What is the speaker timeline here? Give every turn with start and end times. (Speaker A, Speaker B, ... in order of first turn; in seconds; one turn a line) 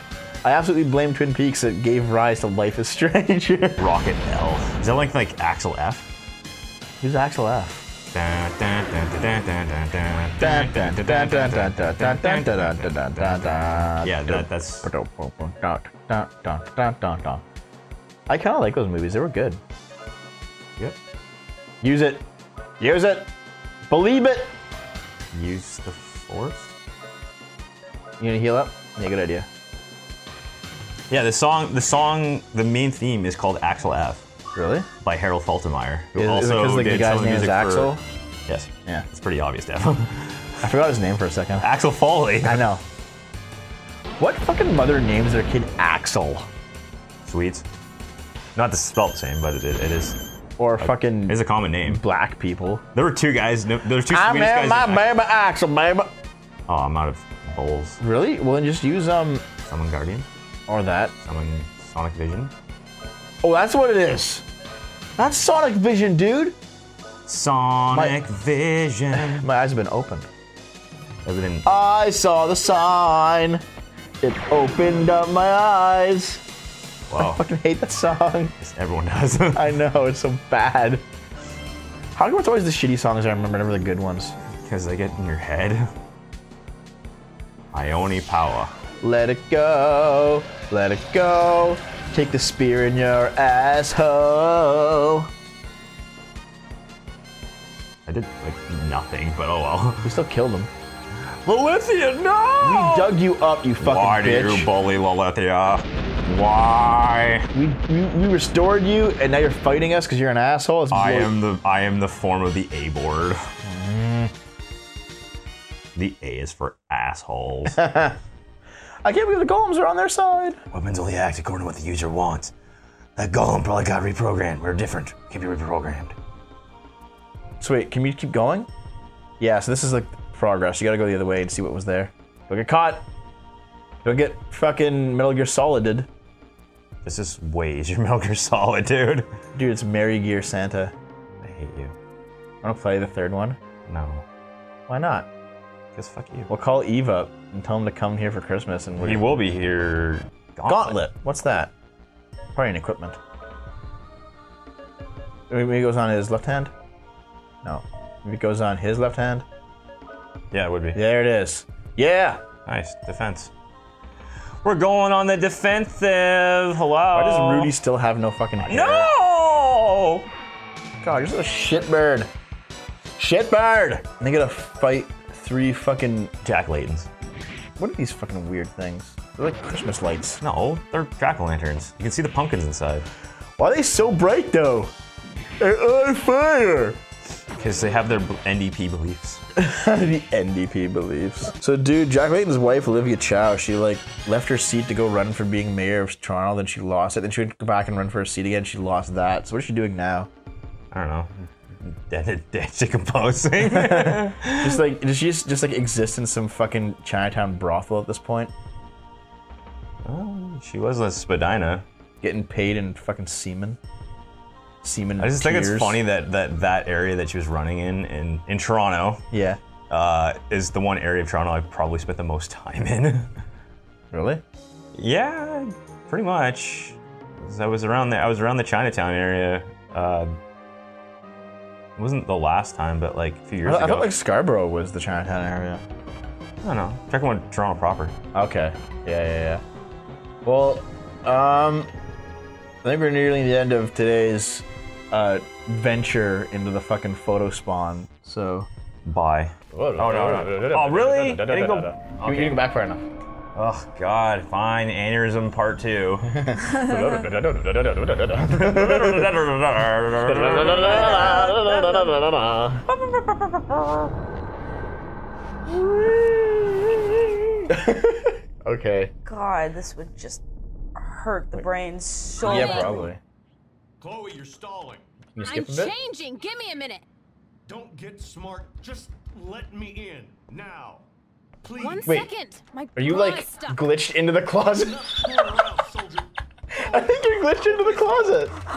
Speaker A: 0.4-3.8
Speaker B: 3.8-6.1
Speaker A: 7.0-7.9
Speaker B: 8.1-14.9
Speaker A: 10.4-17.4
Speaker A: 18.3-19.6
Speaker A: 21.8-22.2
Speaker A: 22.8-23.3
Speaker A: 23.9-24.5
Speaker B: 25.3-26.7
Speaker A: 28.2-29.5
Speaker B: 31.1-34.3
Speaker A: 34.5-34.9
Speaker B: 35.0-38.0
Speaker A: 36.1-38.0
Speaker B: 38.5-40.7
Speaker A: 40.6-41.7
Speaker B: 41.6-42.6
Speaker A: 42.4-42.8
Speaker A: 44.2-46.5
Speaker B: 47.2-47.7
Speaker B: 48.6-50.2
Speaker A: 50.6-52.8
Speaker B: 50.8-52.0
Speaker B: 52.9-55.1
Speaker A: 54.1-56.1
Speaker B: 56.7-58.0
Speaker A: 58.0-59.4
Speaker B: 59.6-60.3
Speaker A: 60.7-61.1
Speaker B: 61.2-62.5
Speaker A: 63.4-64.5
Speaker A: 65.2-66.6
Speaker B: 67.3-69.4
Speaker A: 67.9-68.2
Speaker A: 69.1-70.3
Speaker B: 71.2-71.8
Speaker A: 71.7-73.6
Speaker A: 74.2-76.4
Speaker B: 77.1-77.4
Speaker A: 77.2-78.6
Speaker B: 78.6-79.8
Speaker A: 79.5-81.0
Speaker A: 82.2-84.4
Speaker B: 84.5-85.9
Speaker B: 87.7-88.7
Speaker A: 89.0-95.3
Speaker B: 98.1-100.1
Speaker A: 100.0-100.7
Speaker B: 101.4-103.2
Speaker A: 102.6-104.7
Speaker B: 103.8-107.5
Speaker A: 107.5-111.3
Speaker B: 110.9-113.4
Speaker A: 113.6-114.3
Speaker B: 116.0-117.8
Speaker A: 117.7-118.2
Speaker A: 119.0-120.6
Speaker B: 120.7-122.5
Speaker B: 123.2-126.2
Speaker A: 127.6-128.7
Speaker A: 129.4-133.1
Speaker A: 134.0-136.1
Speaker B: 137.0-139.3
Speaker A: 139.6-140.9
Speaker B: 141.4-142.0
Speaker A: 142.6-143.6
Speaker B: 143.9-144.2
Speaker A: 144.9-145.3
Speaker B: 145.9-146.5
Speaker A: 146.5-149.4
Speaker B: 149.0-151.0
Speaker A: 150.7-151.7
Speaker A: 152.6-153.2
Speaker A: 155.5-156.7
Speaker A: 157.6-159.5
Speaker B: 160.5-161.0
Speaker A: 160.9-162.4
Speaker B: 162.7-163.5
Speaker B: 164.6-167.7
Speaker A: 167.1-169.1
Speaker B: 168.6-170.3
Speaker A: 171.0-172.3
Speaker A: 173.2-176.3
Speaker B: 176.4-177.1
Speaker A: 177.8-180.4
Speaker B: 180.4-183.1
Speaker A: 183.6-184.9
Speaker A: 185.6-187.0
Speaker B: 187.6-189.4
Speaker A: 189.6-200.3
Speaker B: 200.9-204.8
Speaker A: 203.6-208.5
Speaker B: 210.1-211.8
Speaker A: 212.2-213.8
Speaker A: 214.8-216.0
Speaker B: 215.2-219.2
Speaker A: 219.3-219.6
Speaker B: 219.9-223.3
Speaker A: 224.1-224.4
Speaker B: 225.0-230.4
Speaker B: 232.0-234.1
Speaker A: 233.6-235.8
Speaker B: 236.6-238.2
Speaker A: 238.3-239.6
Speaker A: 240.4-241.9
Speaker A: 242.8-248.7
Speaker B: 249.1-252.6
Speaker A: 249.7-253.1
Speaker B: 253.6-256.4
Speaker A: 256.3-259.3
Speaker B: 258.2-261.4
Speaker A: 260.2-262.9
Speaker C: 261.2-262.1
Speaker C: 263.0-263.6
Speaker A: 265.7-266.1
Speaker C: 266.3-266.8
Speaker A: 267.7-269.1
Speaker C: 269.2-270.4
Speaker C: 271.0-273.1
Speaker A: 272.4-273.2
Speaker D: 272.6-272.9
Speaker E: 274.0-275.1
Speaker A: 275.4-276.0
Speaker D: 275.4-277.1
Speaker E: 277.7-281.1
Speaker E: 281.6-282.0
Speaker D: 281.8-283.8
Speaker A: 282.0-282.3
Speaker A: 283.0-285.8
Speaker E: 285.1-286.3
Speaker A: 286.7-288.6